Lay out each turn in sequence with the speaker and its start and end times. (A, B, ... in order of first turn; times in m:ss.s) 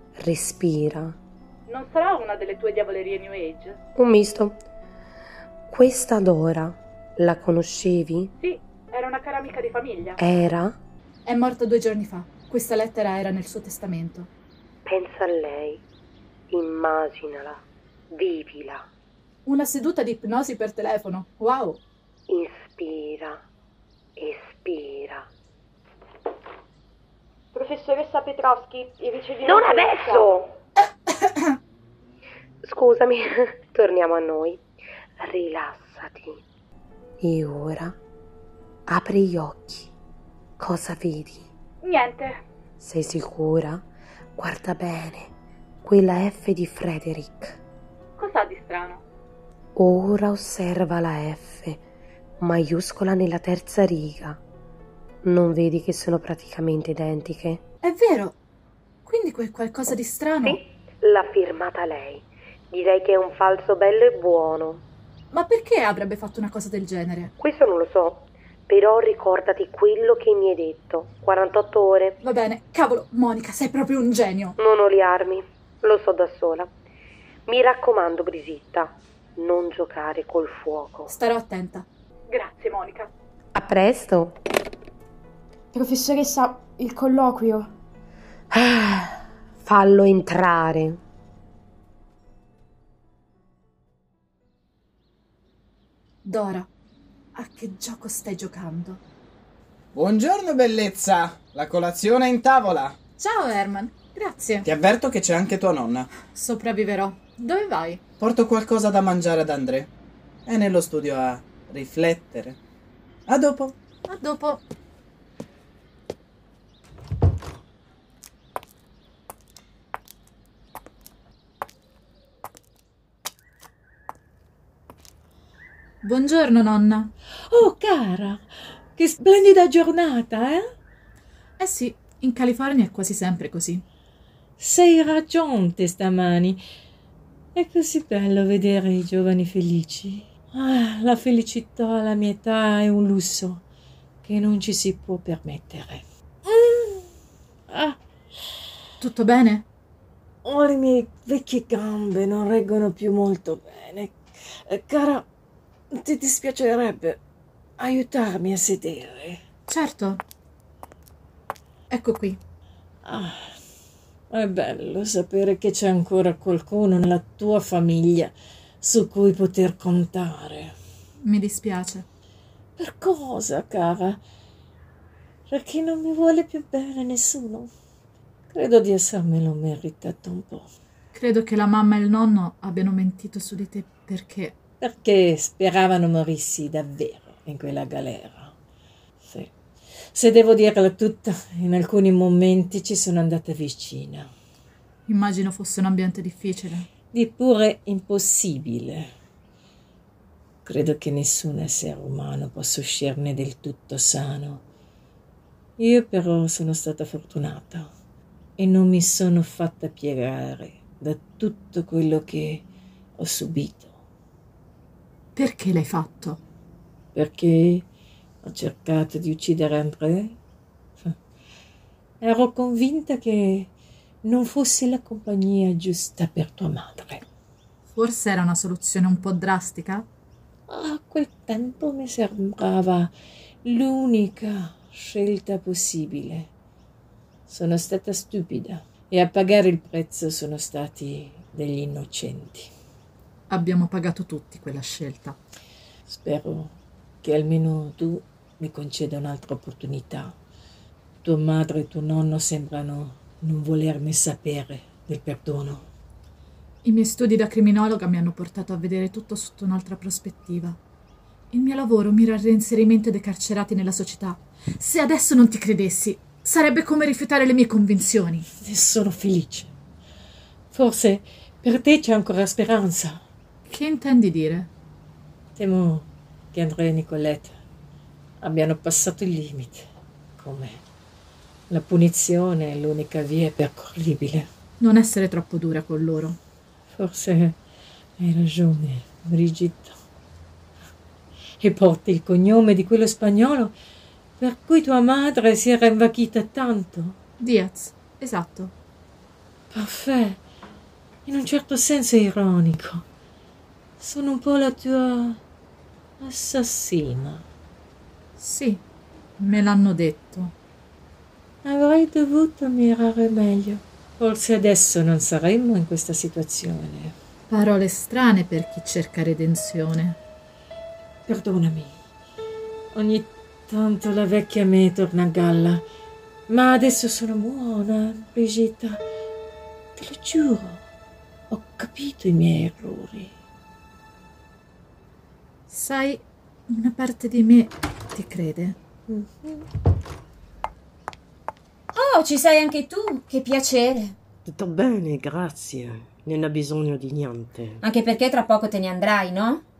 0:00.2-0:01.2 A
0:01.7-0:03.8 B
0:04.0-0:04.6 A
0:05.7-0:08.3 A
0:08.4-0:10.2 B
0:10.2-0:10.8 A
0:11.2-0:14.3 B
0:14.8-0:15.8 A
0:16.5-0:17.6 A
0:18.1-0:18.8 A
0:19.4-0:21.8 B
0:22.3-0:23.4 A
0:24.2-0:25.2 A
0:27.5-0:30.4 C
0:29.4-0:30.5 A
0:31.0-0:31.5 B
0:32.6-0:34.6 A
0:35.2-0:36.4 A
0:37.2-0:38.0 A
0:38.9-0:39.9 A
0:40.6-0:41.5 A
0:41.8-0:42.4 B
0:42.8-0:43.8 A
0:44.4-0:45.3 A
0:45.8-0:47.6 A
0:48.2-0:49.0 B
0:49.8-0:51.8 A
0:52.4-0:54.4 A
0:55.2-0:57.6 A
0:57.8-0:58.4 B
0:59.0-1:00.6 B
1:00.4-1:04.8 A
1:05.3-1:07.3 B
1:07.4-1:12.2 A
1:12.2-1:14.6 B
1:14.6-1:16.7 A
1:17.5-1:21.1 A
1:21.1-1:23.1 B
1:23.5-1:24.4 A
1:25.7-1:27.7 D
1:28.5-1:31.0 A
1:36.2-1:36.7 B
1:37.3-1:39.0 B
1:39.9-1:43.0 E
1:43.2-1:44.6 B
1:44.6-1:46.1 E
1:46.3-1:48.0 B
1:48.2-1:49.9 E
1:50.4-1:52.6 E
1:53.3-1:53.7 E
1:54.1-1:54.6 B
2:06.0-2:07.1 B
2:07.5-2:10.6 F
2:11.6-2:13.8 B
2:14.6-2:16.6 F
2:17.5-2:23.6 F
2:24.2-2:27.0 F
2:27.7-2:28.0 F
2:29.0-2:29.6 B
2:30.4-2:34.1 F
2:34.7-2:35.2 F
2:35.9-2:37.2 F
2:37.8-2:39.4 F
2:39.7-2:40.2 B
2:41.9-2:42.4 B
2:43.0-2:43.5 F
2:44.3-2:50.7 F
2:51.2-2:52.0 B
2:52.8-2:54.2 F
2:55.5-2:57.7 F
2:58.5-3:00.7 F
3:01.1-3:04.5 B
3:04.8-3:08.5 F
3:09.2-3:09.5 F
3:10.1-3:14.3 F
3:15.1-3:16.9 B
3:17.1-3:19.1 F
3:20.6-3:24.6 F
3:25.8-3:27.9 F
3:28.6-3:32.6 F
3:33.2-3:33.9 F
3:35.4-3:36.4 B
3:37.1-3:37.8 F
3:38.4-3:40.3 F
3:42.2-3:43.7 F
3:44.2-3:47.2 F
3:47.9-3:50.0 B
3:50.7-3:53.1 F
3:53.6-3:56.5 F
3:57.5-4:02.7 F
4:03.5-4:05.4 B
4:06.1-4:10.3 F
4:11.2-4:15.9 F
4:16.8-4:20.8 B
4:21.5-4:28.5 B
4:28.6-4:29.7 F
4:30.7-4:33.2 F
4:33.7-4:34.7 B
4:35.6-4:37.6 F
4:38.4-4:39.8 F
4:40.4-4:40.8 F
4:41.7-4:44.5 F
4:44.8-4:46.4 B
4:46.9-4:47.6 F
4:48.2-4:50.0 F
4:51.6-4:53.7 F
4:54.4-4:57.2 F
4:57.4-4:58.7 B
4:59.7-5:00.4 F
5:01.2-5:03.0 F
5:04.0-5:05.4 F
5:06.2-5:07.4 F
5:08.4-5:08.8 B
5:09.4-5:10.5 B
5:11.6-5:17.1 F
5:17.5-5:20.2 B
5:21.2-5:22.0 F
5:22.9-5:25.8 F
5:26.5-5:29.0 F
5:30.0-5:30.8 F
5:31.5-5:33.3 F
5:35.7-5:38.8 B
5:39.1-5:39.6 F
5:41.9-5:44.2 G
5:44.4-5:47.8 H
5:47.8-5:49.6 G